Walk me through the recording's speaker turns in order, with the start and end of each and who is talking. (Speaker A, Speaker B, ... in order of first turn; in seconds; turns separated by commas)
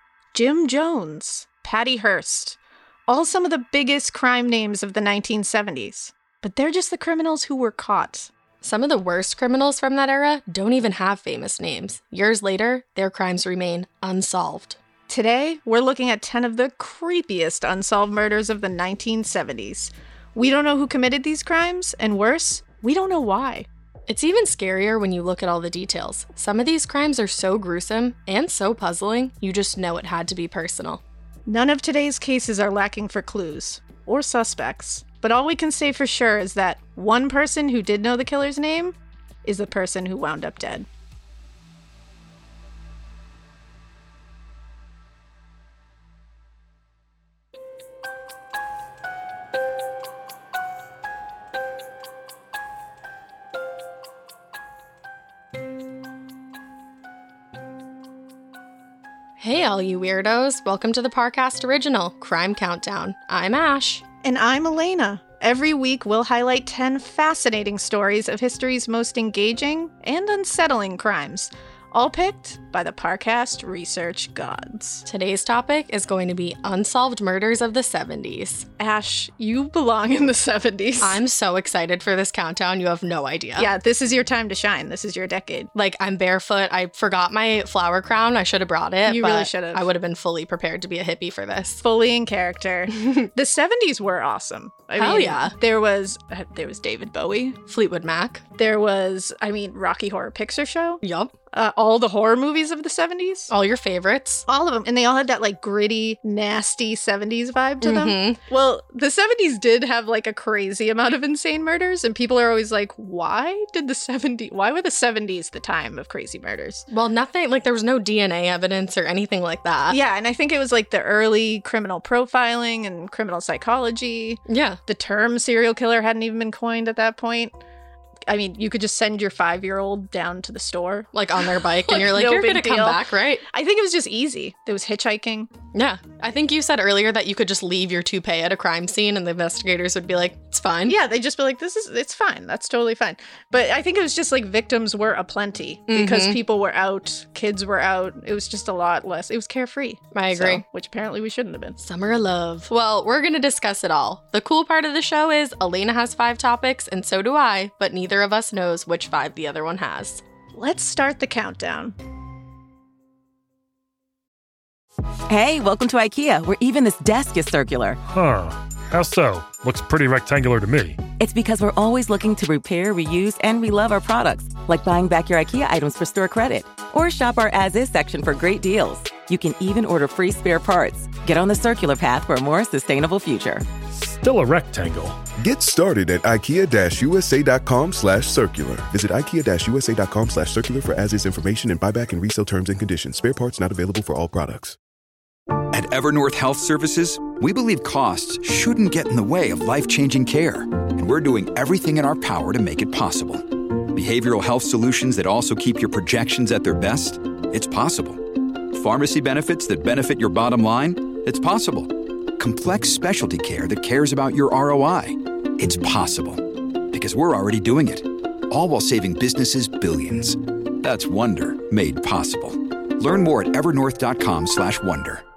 Speaker A: 0.3-8.3, Speaker B: 8.6-14.8, Speaker A: 15.1-23.7, Speaker B: 24.1-31.0, Speaker A: 31.5-40.9, Speaker B: 59.4-64.0, Speaker A: 64.2-75.0, Speaker B: 75.0-78.7, Speaker A: 78.8-81.2, Speaker B: 81.0-83.7, Speaker A: 83.5-85.7, Speaker B: 85.7-91.8, Speaker A: 89.0-89.9, Speaker A: 91.8-97.6, Speaker B: 93.0-93.2, Speaker B: 95.0-95.5, Speaker B: 97.7-98.4, Speaker A: 98.5-103.5, Speaker B: 101.0-101.3, Speaker B: 103.5-104.4, Speaker A: 104.5-116.8, Speaker B: 107.8-108.4, Speaker B: 116.9-120.0, Speaker A: 119.9-127.5, Speaker B: 124.5-124.8, Speaker A: 128.3-135.5, Speaker B: 131.1-133.4, Speaker B: 135.7-141.0, Speaker A: 140.9-151.8, Speaker B: 145.9-146.4, Speaker B: 150.1-150.6, Speaker B: 151.8-160.2, Speaker A: 160.5-161.9, Speaker C: 165.3-168.0, Speaker D: 168.1-171.0, Speaker C: 171.2-183.6, Speaker D: 183.9-185.2, Speaker E: 185.4-194.8, Speaker F: 195.7-225.2